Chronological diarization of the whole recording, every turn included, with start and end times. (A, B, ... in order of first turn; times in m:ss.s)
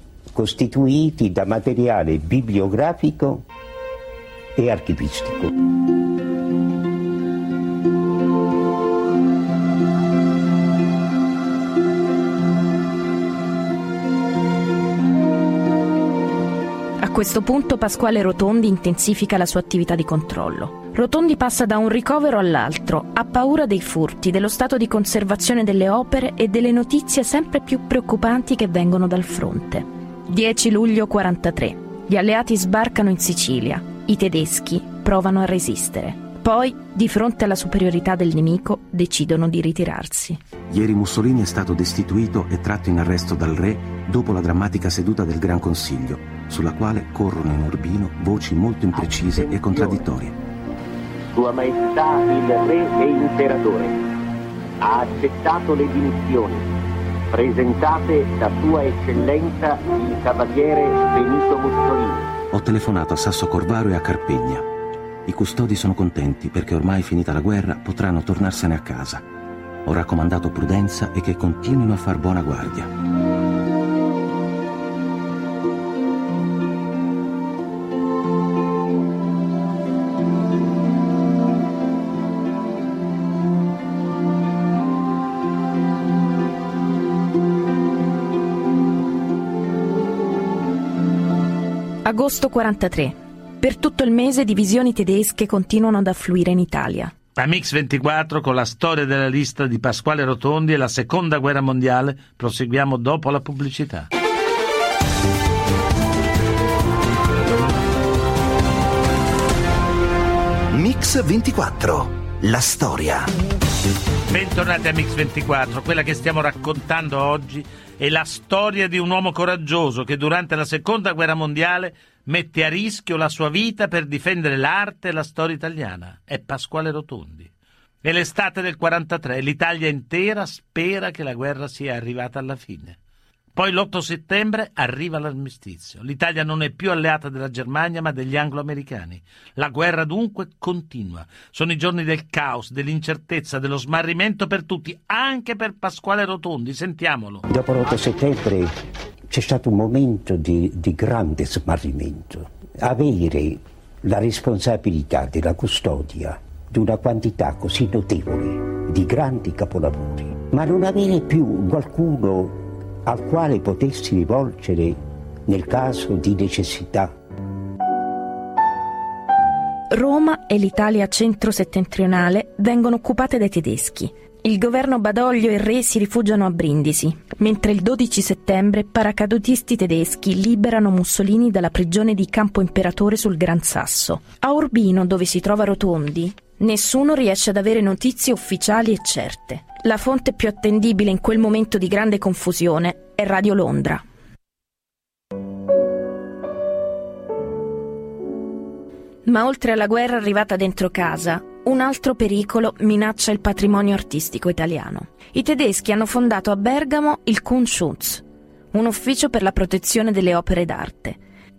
0:00.3-0:03.4 A
0:04.6-0:05.5 A
0:17.0-0:40.4 B
0:40.7-0:50.4 C
0:49.5-0:50.0 D
0:51.3-0:54.0 D
0:54.8-0:56.7 D
0:57.3-1:02.2 D
1:02.5-1:04.6 C
1:05.2-1:09.2 C
1:09.8-1:12.9 C
1:32.0-1:37.1 B
1:37.4-1:44.1 E
1:50.7-1:53.3 F
1:54.3-2:07.5 E
2:08.0-2:13.0 E
2:13.5-2:27.5 E
2:27.5-2:28.7 A
2:29.3-2:47.1 A
2:49.9-3:14.0 B
3:19.2-3:31.2 B